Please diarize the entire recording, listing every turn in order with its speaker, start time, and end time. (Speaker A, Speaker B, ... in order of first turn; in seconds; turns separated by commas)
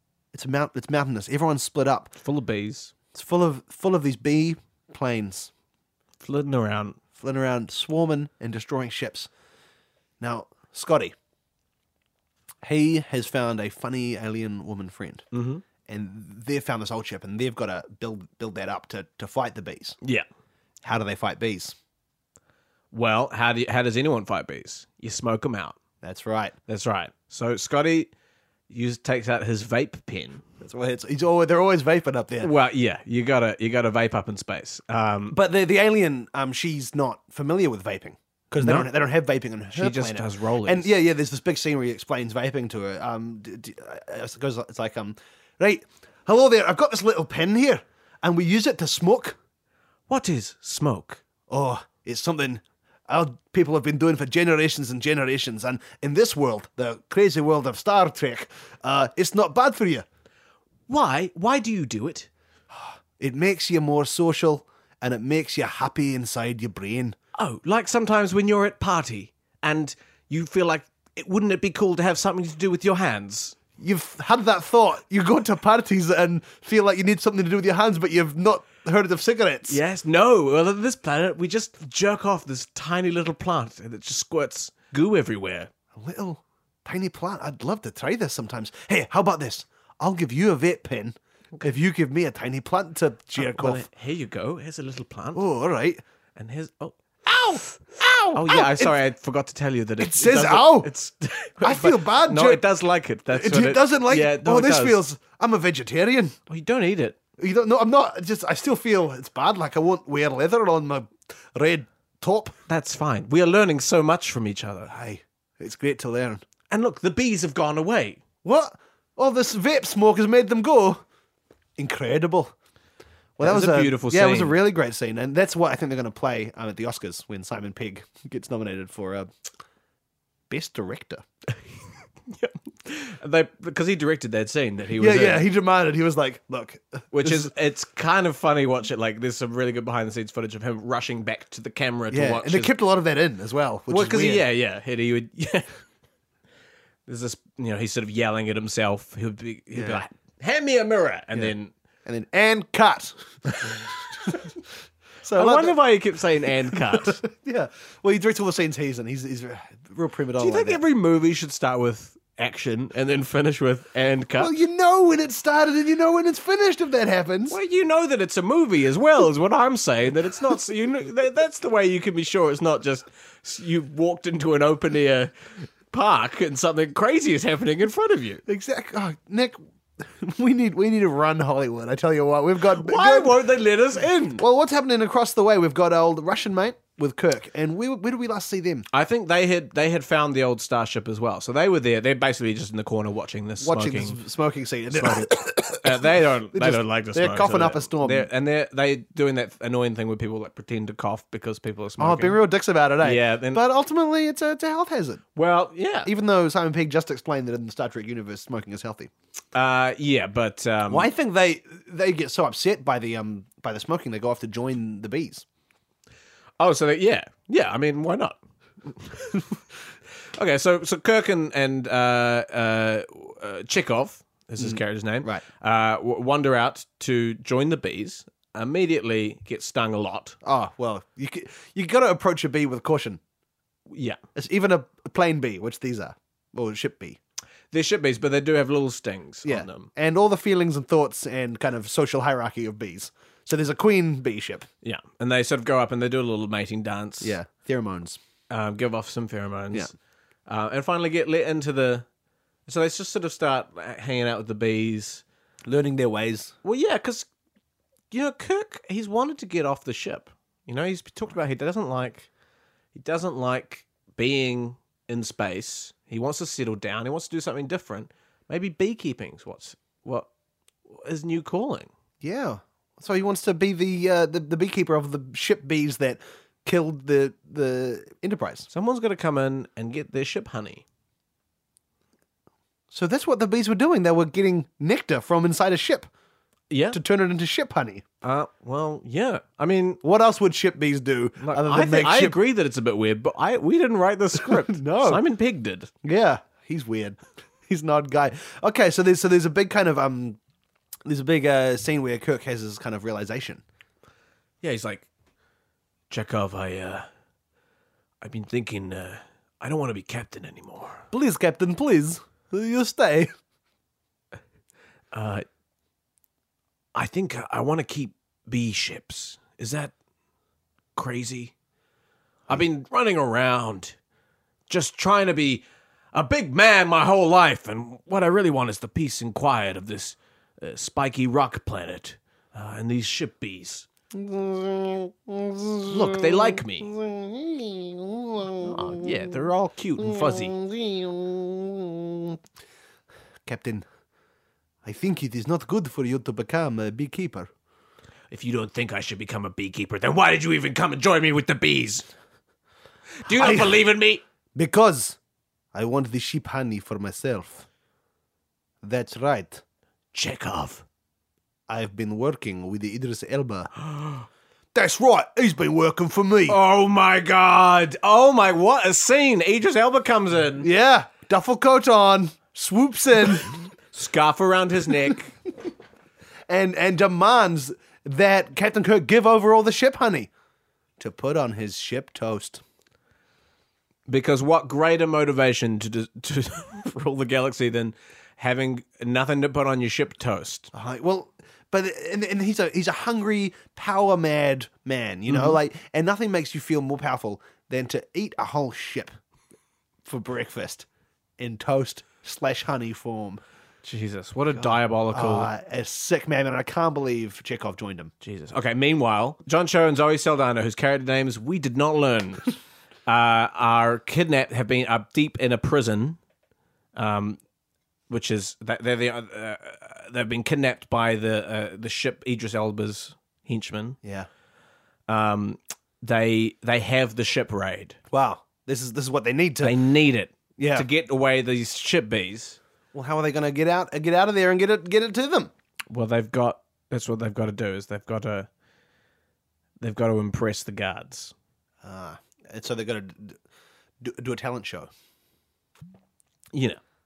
Speaker A: 0.3-2.1, Speaker B: 2.2-2.9, Speaker A: 3.1-5.5, Speaker B: 6.2-7.0, Speaker A: 7.2-9.3, Speaker A: 10.2-11.1, Speaker A: 12.6-15.2, Speaker B: 15.3-15.6, Speaker A: 15.8-20.0, Speaker A: 20.8-21.8, Speaker B: 22.9-25.8, Speaker A: 26.0-26.6, Speaker B: 26.7-28.1, Speaker B: 28.7-30.4, Speaker A: 30.6-32.5, Speaker B: 32.4-35.4, Speaker A: 35.3-49.4, Speaker B: 38.6-38.9, Speaker B: 39.7-40.9, Speaker B: 50.1-51.2, Speaker A: 51.5-60.0, Speaker B: 60.9-62.3, Speaker A: 62.7-67.2, Speaker B: 67.3-73.6, Speaker A: 73.8-79.8, Speaker B: 79.7-85.7, Speaker A: 85.9-93.8, Speaker B: 93.4-95.4, Speaker A: 95.3-96.0, Speaker B: 96.3-97.6, Speaker A: 97.3-99.0, Speaker B: 98.3-105.0, Speaker A: 100.0-100.9, Speaker A: 101.6-102.6, Speaker A: 103.3-106.3, Speaker B: 106.5-107.2, Speaker A: 107.4-112.5, Speaker B: 112.7-114.9, Speaker A: 114.9-116.4, Speaker B: 116.7-118.2, Speaker A: 118.4-121.0, Speaker A: 121.8-122.5, Speaker A: 123.4-129.3, Speaker B: 123.4-124.6, Speaker A: 130.5-131.2, Speaker B: 132.2-135.4, Speaker A: 135.0-137.5, Speaker B: 137.1-142.7, Speaker A: 142.1-144.4, Speaker B: 143.9-145.8, Speaker B: 147.1-151.7, Speaker A: 149.7-150.0, Speaker A: 152.1-154.5, Speaker A: 155.2-155.8, Speaker B: 155.3-157.2, Speaker A: 156.7-160.8, Speaker B: 160.4-164.6, Speaker A: 164.4-167.6, Speaker B: 167.5-175.3, Speaker B: 175.9-178.4, Speaker A: 178.5-183.4, Speaker B: 182.7-184.4, Speaker A: 184.4-188.8, Speaker B: 188.9-194.2, Speaker A: 193.6-198.3, Speaker B: 194.9-202.4, Speaker A: 202.0-205.2, Speaker B: 203.0-203.6, Speaker B: 205.3-206.1, Speaker A: 206.0-209.1, Speaker B: 209.5-211.1, Speaker A: 210.9-215.4, Speaker B: 216.6-219.6, Speaker B: 220.3-230.4, Speaker A: 224.6-225.4, Speaker A: 230.4-233.2, Speaker B: 233.9-234.2, Speaker A: 234.3-237.2, Speaker B: 237.7-239.9, Speaker A: 239.4-244.7, Speaker B: 244.8-247.3, Speaker A: 247.2-248.2, Speaker B: 248.5-249.9, Speaker B: 250.5-252.1, Speaker B: 252.7-255.2, Speaker A: 255.7-256.5, Speaker B: 256.6-257.3, Speaker B: 258.1-262.3, Speaker B: 262.9-270.3, Speaker B: 270.9-271.9, Speaker A: 272.2-278.7, Speaker B: 278.7-280.8, Speaker A: 282.9-286.1, Speaker B: 286.7-287.0, Speaker A: 286.9-288.0, Speaker B: 288.2-290.0, Speaker A: 290.0-292.4, Speaker B: 291.4-295.9, Speaker A: 294.4-295.2, Speaker A: 296.0-300.4, Speaker A: 301.1-303.6, Speaker B: 304.6-305.1, Speaker B: 306.1-307.1, Speaker B: 308.2-311.0, Speaker A: 311.1-313.3, Speaker B: 315.1-315.4, Speaker B: 316.9-319.9, Speaker B: 320.9-321.5, Speaker B: 322.5-323.9, Speaker B: 324.7-333.9, Speaker A: 334.1-339.1, Speaker B: 335.9-336.9, Speaker B: 338.6-340.6, Speaker A: 340.0-342.4, Speaker A: 343.4-343.9, Speaker A: 344.8-347.5, Speaker B: 348.3-352.1, Speaker B: 353.2-354.2, Speaker A: 353.3-353.8, Speaker A: 354.5-355.2, Speaker A: 355.7-357.6, Speaker A: 358.8-359.6, Speaker B: 360.1-360.8, Speaker A: 361.7-363.7, Speaker A: 364.7-366.6, Speaker B: 366.5-370.7, Speaker A: 370.6-373.5, Speaker B: 373.9-375.3, Speaker A: 376.5-380.3, Speaker A: 381.0-382.6, Speaker B: 384.1-390.7, Speaker A: 390.7-399.1, Speaker B: 395.3-395.6, Speaker A: 400.0-400.9, Speaker A: 401.4-403.4, Speaker B: 403.8-405.5, Speaker A: 404.5-408.1, Speaker B: 408.2-412.5, Speaker B: 413.1-416.2, Speaker B: 416.9-417.4, Speaker B: 418.1-424.0, Speaker A: 424.0-424.3, Speaker B: 425.1-428.0, Speaker A: 428.1-429.8, Speaker B: 429.6-432.6, Speaker A: 430.6-430.9, Speaker A: 432.9-435.5, Speaker B: 435.9-438.5, Speaker B: 439.8-441.3, Speaker A: 441.8-443.4, Speaker A: 444.0-444.9, Speaker B: 446.5-446.8